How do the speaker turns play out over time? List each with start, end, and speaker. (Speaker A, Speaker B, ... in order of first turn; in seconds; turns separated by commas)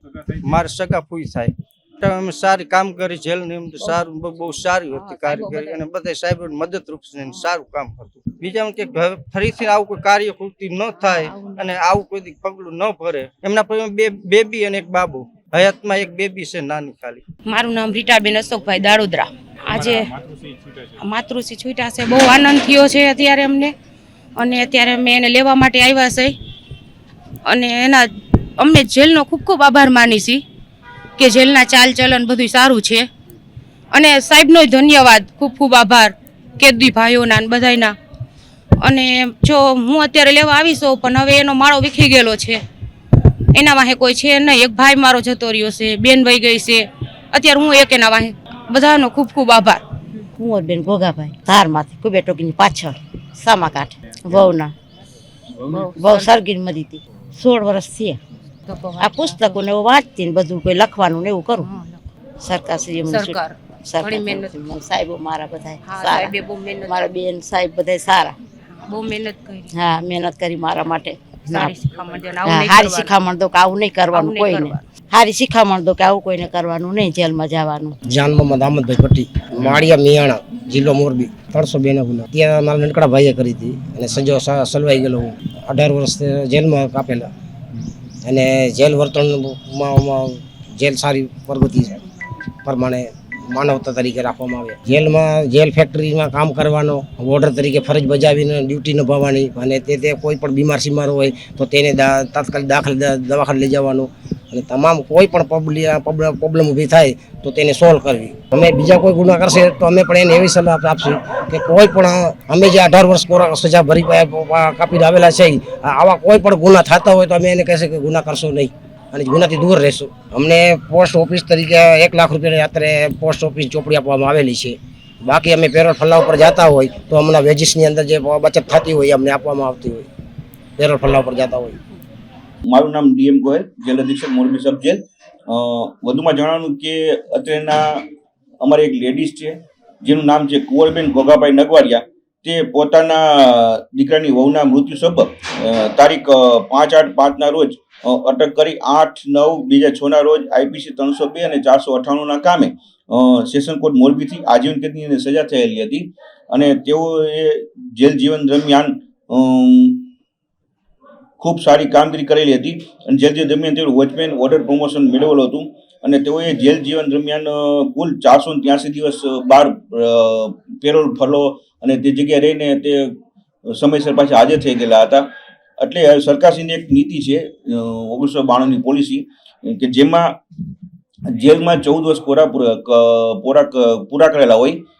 Speaker A: 0.4-17.2, Speaker B: 5.0-5.8, Speaker B: 11.1-11.7, Speaker B: 17.5-20.2, Speaker B: 21.0-23.7, Speaker B: 24.4-26.4, Speaker B: 27.5-30.4, Speaker B: 31.2-33.1, Speaker B: 33.9-38.0, Speaker B: 38.8-42.6, Speaker B: 43.5-49.8, Speaker C: 50.4-54.7, Speaker B: 55.6-56.3, Speaker C: 55.9-58.2, Speaker B: 58.7-59.6, Speaker C: 59.0-61.7, Speaker B: 61.6-62.0, Speaker C: 62.4-68.4, Speaker B: 63.1-64.6, Speaker B: 65.8-67.1, Speaker B: 68.8-69.7, Speaker C: 69.7-71.7, Speaker B: 71.5-73.2, Speaker C: 72.5-78.0, Speaker B: 74.1-74.8, Speaker D: 78.1-87.3, Speaker D: 88.2-92.0, Speaker D: 92.7-130.1, Speaker D: 130.8-131.8, Speaker E: 132.7-138.0, Speaker E: 138.6-160.1, Speaker E: 161.4-173.1, Speaker E: 173.7-175.3, Speaker E: 175.8-180.3, Speaker E: 181.3-184.8